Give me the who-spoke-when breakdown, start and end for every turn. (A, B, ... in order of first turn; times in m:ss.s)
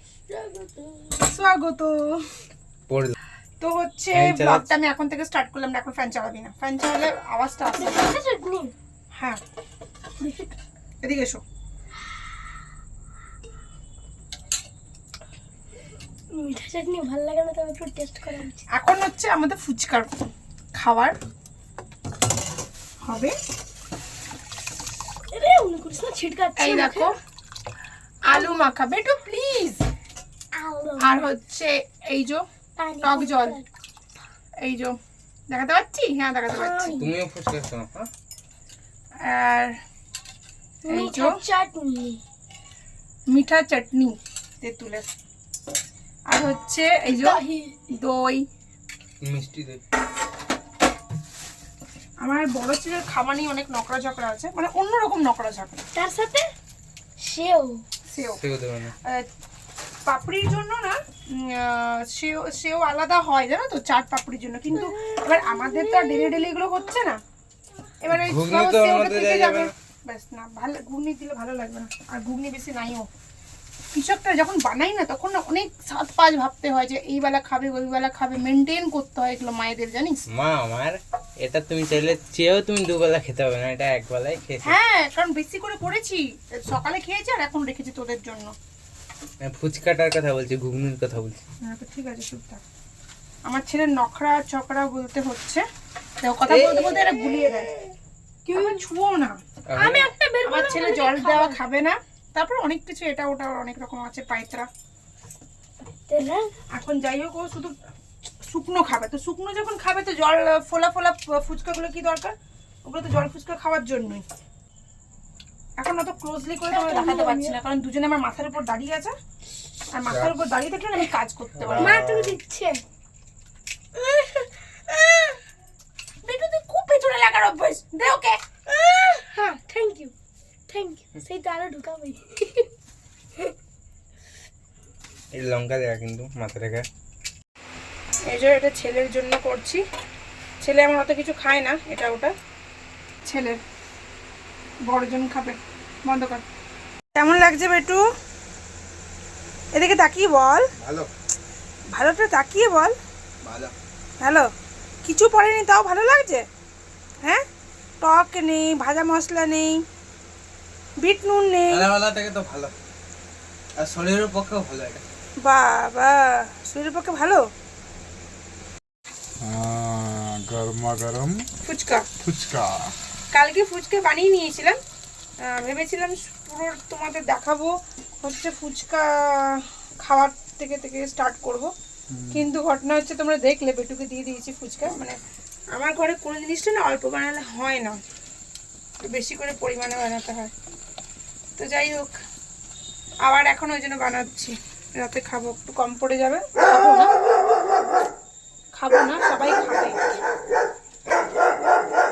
0:00.3-0:01.3 A
0:01.2-0:02.0 B
0:02.9-0:03.2 C
0:03.6-0:08.1 B
0:04.1-0:04.7 C
0:07.8-0:08.7 A
0:10.2-0:10.5 A
0:11.0-0:11.4 B
0:16.4-0:18.6 A
0:18.7-0:20.1 B
0:20.8-0:21.2 B
0:23.0-0:23.3 B
0:25.3-0:27.1 A
0:26.6-0:27.1 B
0:28.2-0:29.8 B
0:28.3-0:28.8 A
0:30.5-0:31.3 A
0:31.0-0:32.4 B
0:32.8-0:33.7 A
0:33.0-0:33.6 B
0:34.6-0:35.0 B
0:35.5-0:37.0 B
0:36.5-0:37.1 A
0:37.0-0:38.1 C
0:39.2-0:39.7 B
0:40.8-0:42.2 A
0:40.9-0:41.4 B
0:43.3-0:45.0 B
0:46.3-0:48.4 B
0:47.1-0:47.8 A
0:49.2-0:49.8 C
0:52.2-0:55.8 B
0:55.9-0:56.5 A
0:57.2-0:57.8 A
0:58.1-0:58.4 B
0:58.2-0:58.9 C
1:00.1-1:07.2 B
1:04.7-1:06.7 A
1:08.0-1:13.1 B
1:08.1-1:09.7 C
1:13.9-1:20.2 B
1:20.3-1:24.8 C
1:24.6-1:28.5 B
1:29.4-1:31.4 C
1:31.6-1:32.6 B
1:33.4-1:35.6 B
1:36.2-1:37.7 B
1:36.5-1:37.8 A
1:38.4-1:38.8 A
1:38.5-1:39.4 B
1:39.7-1:40.1 C
1:39.7-1:41.6 A
1:40.4-1:44.7 B
1:45.8-1:46.5 A
1:46.7-1:47.7 B
1:48.4-1:52.3 B
1:52.9-1:54.2 B
1:55.8-1:59.1 B
1:56.7-1:57.6 A
1:59.9-2:02.0 B
2:00.1-2:00.3 D
2:01.6-2:02.4 D
2:01.8-2:02.8 A
2:06.2-2:08.4 B
2:08.7-2:10.1 A
2:10.7-2:12.7 A
2:15.3-2:16.9 C
2:18.3-2:19.8 B
2:20.6-2:22.3 B
2:23.2-2:23.6 B
2:24.9-2:26.4 B
2:27.1-2:28.0 B
2:29.8-2:30.7 B
2:30.8-2:31.1 C
2:31.9-2:32.9 B
2:33.4-2:33.7 C
2:34.2-2:34.4 B
2:35.0-2:36.4 B
2:38.0-2:39.8 B
2:41.0-2:41.9 B
2:41.7-2:42.7 C
2:43.8-2:45.0 C
2:45.4-2:47.4 B
2:49.4-2:51.4 D
2:51.6-2:52.1 B
2:52.2-2:52.9 D
2:53.3-2:54.8 B
2:55.4-3:01.7 B
3:02.1-3:02.5 D
3:02.3-3:05.2 B
3:05.7-3:08.0 B
3:09.0-3:10.5 B
3:11.6-3:12.1 B
3:13.2-3:17.1 B
3:18.7-3:20.2 B